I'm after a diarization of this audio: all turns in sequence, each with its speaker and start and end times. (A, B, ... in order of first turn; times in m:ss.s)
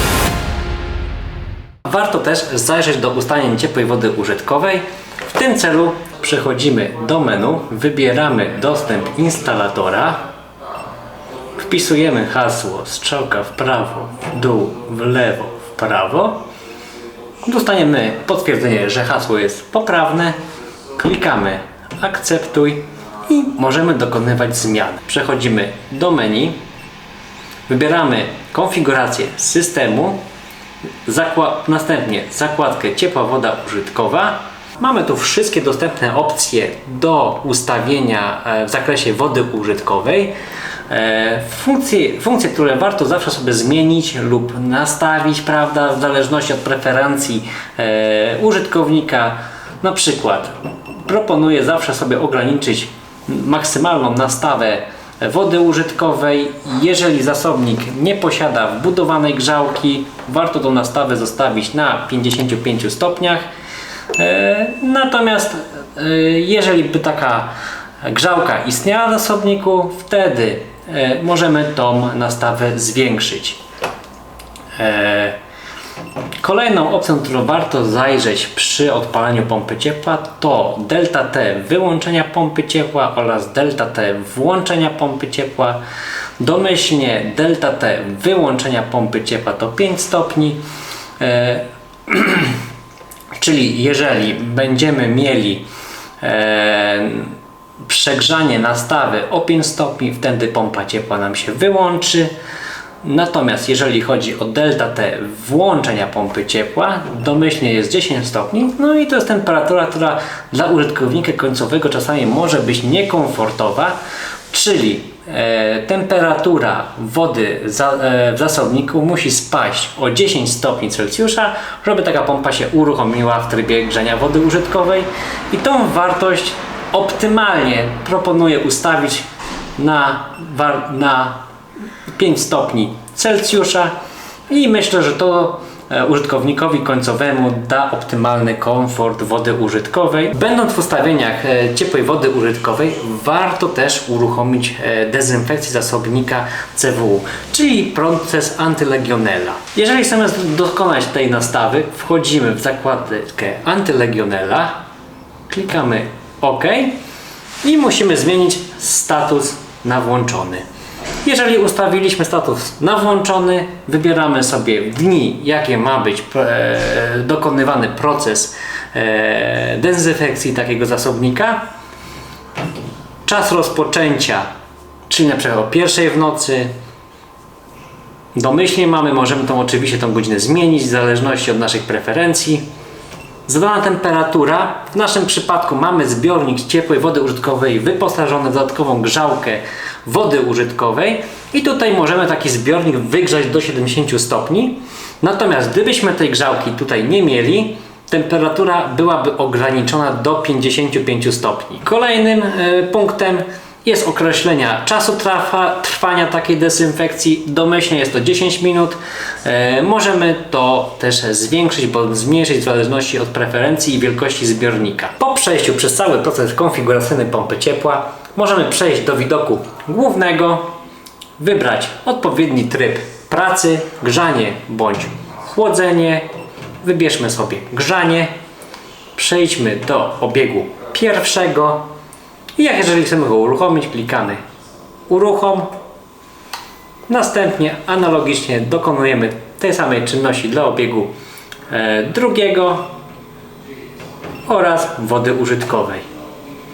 0:01.8-0:10.2 A
0:11.6-0:16.4 A
0:17.4-0:20.4 A
0:21.0-0:26.6 A
0:27.7-0:30.2 A
0:31.0-0:40.3 A
0:40.9-1:03.5 A
1:04.2-1:07.5 A
1:08.0-1:13.6 A
1:14.8-1:15.4 A
1:16.4-1:25.8 A
1:26.4-1:30.6 A
1:31.2-1:32.6 A
1:33.4-1:35.7 A
1:36.2-1:42.3 A
1:43.0-1:54.0 A
1:54.5-2:09.2 A
2:09.8-2:11.4 A
2:12.1-2:13.9 A
2:14.5-2:34.8 A
2:35.5-2:37.0 A
2:37.6-2:40.6 A
2:41.2-2:51.6 A
2:53.3-2:54.5 A
2:55.1-2:56.7 A
2:58.4-3:02.6 A
3:03.5-3:40.7 A
3:41.4-3:46.3 A
3:46.8-3:48.3 A
3:49.2-3:51.9 A
3:52.6-3:54.4 A
3:55.1-3:55.7 A
3:57.1-4:01.1 A
4:01.7-4:02.9 A
4:04.5-4:06.0 A